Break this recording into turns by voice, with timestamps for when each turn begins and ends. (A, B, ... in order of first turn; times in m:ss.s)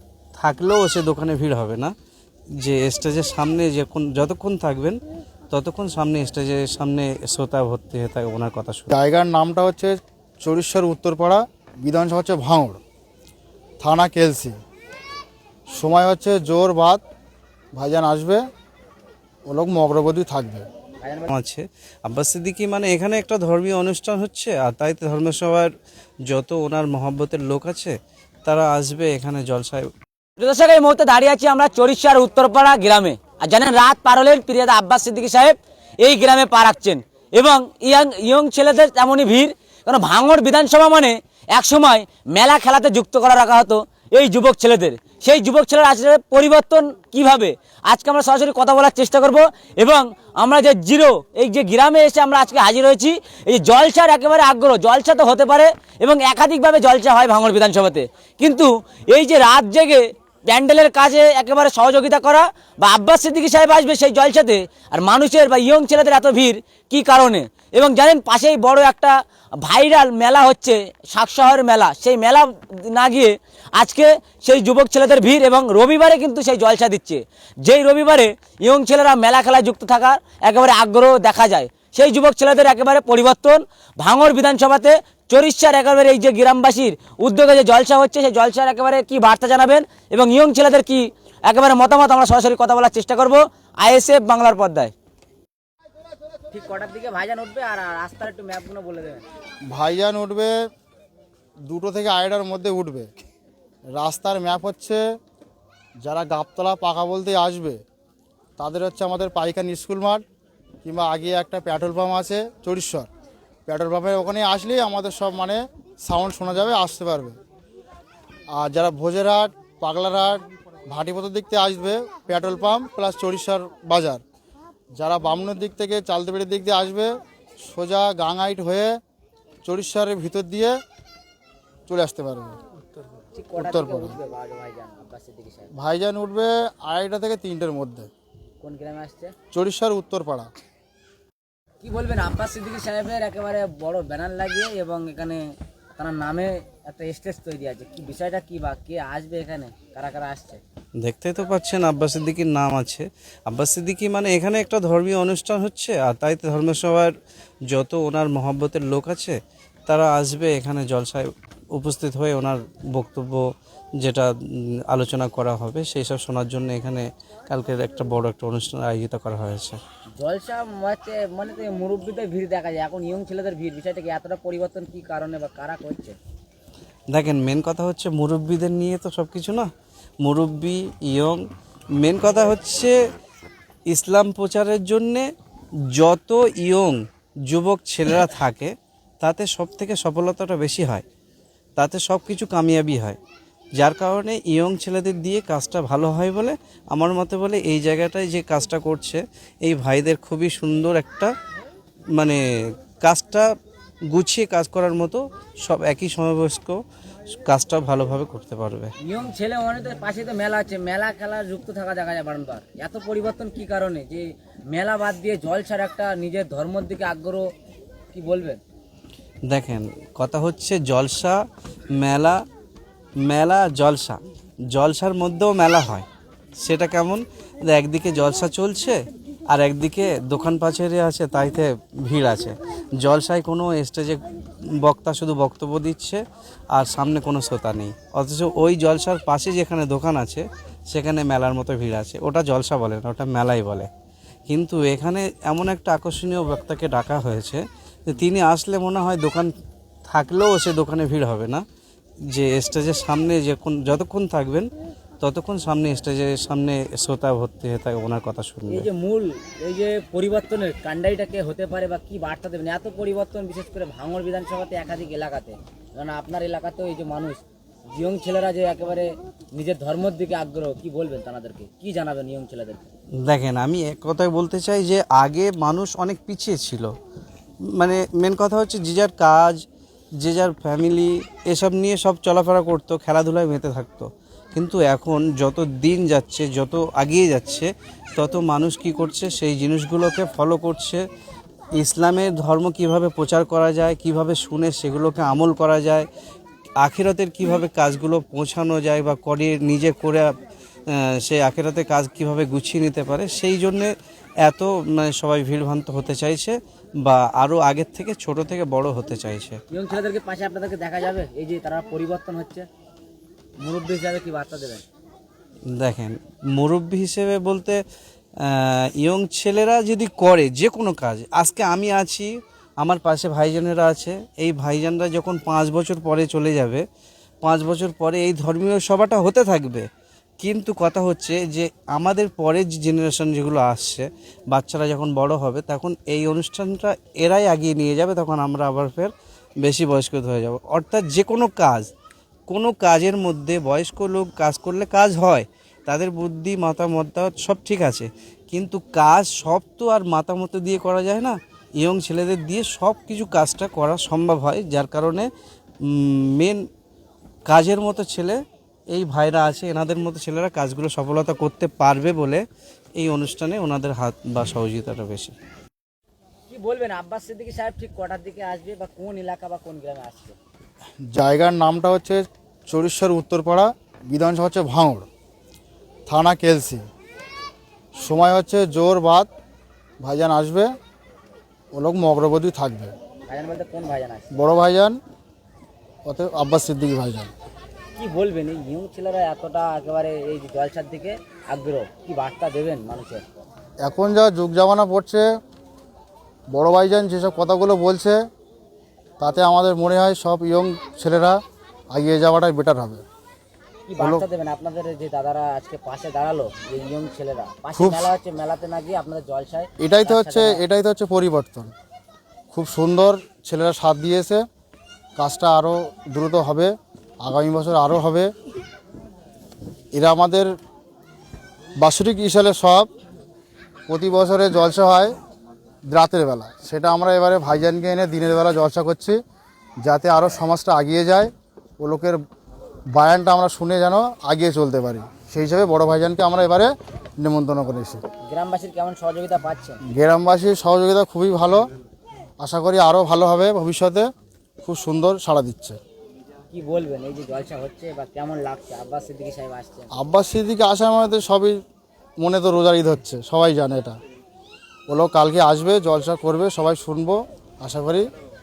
0:00.4-0:01.9 A
0:02.6-0:08.9 A
0:08.9-0:12.8 B
0:13.8-0:14.6 B
0:15.7-0:17.0 B
0:17.8-0:18.4 B
0:19.5-0:20.6 B
0:21.0-0:21.3 C
0:21.3-0:25.7 A
0:26.3-0:29.9 A
0:30.4-1:34.9 C
1:36.5-1:39.2 C
1:39.7-1:40.5 B
1:41.7-1:43.1 B
1:43.9-1:45.0 B
1:46.0-1:47.8 B
1:48.6-1:50.2 B
1:50.8-1:53.1 B
1:53.7-1:57.4 B
1:58.5-2:04.2 B
2:05.0-2:09.0 B
2:09.6-2:10.8 B
2:11.9-2:12.6 B
2:13.3-2:15.7 C
2:13.6-2:14.2 B
2:15.7-2:18.1 B
2:18.6-2:19.3 C
2:19.5-2:20.5 B
2:21.8-2:25.4 C
2:25.9-2:30.6 C
2:31.0-2:37.1 A
2:37.7-2:43.5 A
2:44.0-2:49.8 A
2:50.2-2:56.2 C
2:57.1-2:59.7 A
3:00.2-3:01.4 A
3:02.0-3:03.1 A
3:03.9-3:05.3 A
3:05.9-3:11.0 A
3:11.8-3:13.2 A
3:13.8-3:21.3 A
3:22.2-3:23.5 A
3:24.1-3:26.8 A
3:27.3-3:28.9 A
3:29.0-3:37.5 C
3:38.1-3:38.6 C
3:39.5-3:41.4 A
3:42.0-3:42.4 A
3:43.2-3:44.2 A
3:44.7-3:46.1 A
3:46.6-3:54.2 A
3:54.7-3:56.2 A
3:56.7-4:03.9 A
4:04.5-4:09.5 A
4:10.1-4:11.6 A
4:12.3-4:18.9 A
4:18.7-4:27.4 C
4:27.9-4:32.9 C
4:33.2-4:37.0 A
4:37.7-4:39.6 A
4:40.2-4:51.0 A
4:51.8-4:56.1 A
4:56.8-5:00.3 A
5:00.9-5:03.9 A
5:04.4-5:09.6 A
5:09.7-5:12.7 C
5:13.6-5:14.8 C
5:15.7-5:17.8 A
5:18.4-5:22.3 A
5:22.8-5:26.8 A
5:27.4-5:29.9 A
5:30.4-5:41.9 A
5:42.5-5:55.3 A
5:55.8-5:56.6 A
5:57.5-6:02.4 A
6:03.0-6:05.4 A
6:06.5-6:10.4 C
6:11.0-6:15.1 B
6:16.1-6:16.8 B
6:18.0-6:19.3 B
6:20.0-6:20.7 B
6:21.7-6:22.9 B
6:23.3-6:24.3 C
6:24.3-6:25.0 B
6:26.0-6:27.3 B
6:28.0-6:33.2 C
6:33.8-6:35.3 B
6:36.5-6:38.2 B
6:39.2-6:41.4 B
6:41.9-6:43.0 B
6:43.9-6:50.6 C
6:44.0-6:44.2 B
6:47.8-6:48.1 B
6:49.8-6:51.7 B
6:52.5-6:54.4 B
6:55.2-6:58.3 B
6:59.9-7:00.5 B
7:01.8-7:02.9 B
7:03.9-7:05.1 B
7:05.9-7:09.2 B
7:09.8-7:12.2 B
7:12.9-7:18.0 B
7:18.2-7:19.8 C
7:19.8-7:21.7 B
7:22.4-7:24.1 B
7:24.6-7:25.8 B
7:26.5-7:29.9 C
7:29.9-7:31.6 B
7:32.2-7:34.0 B
7:34.9-7:38.1 B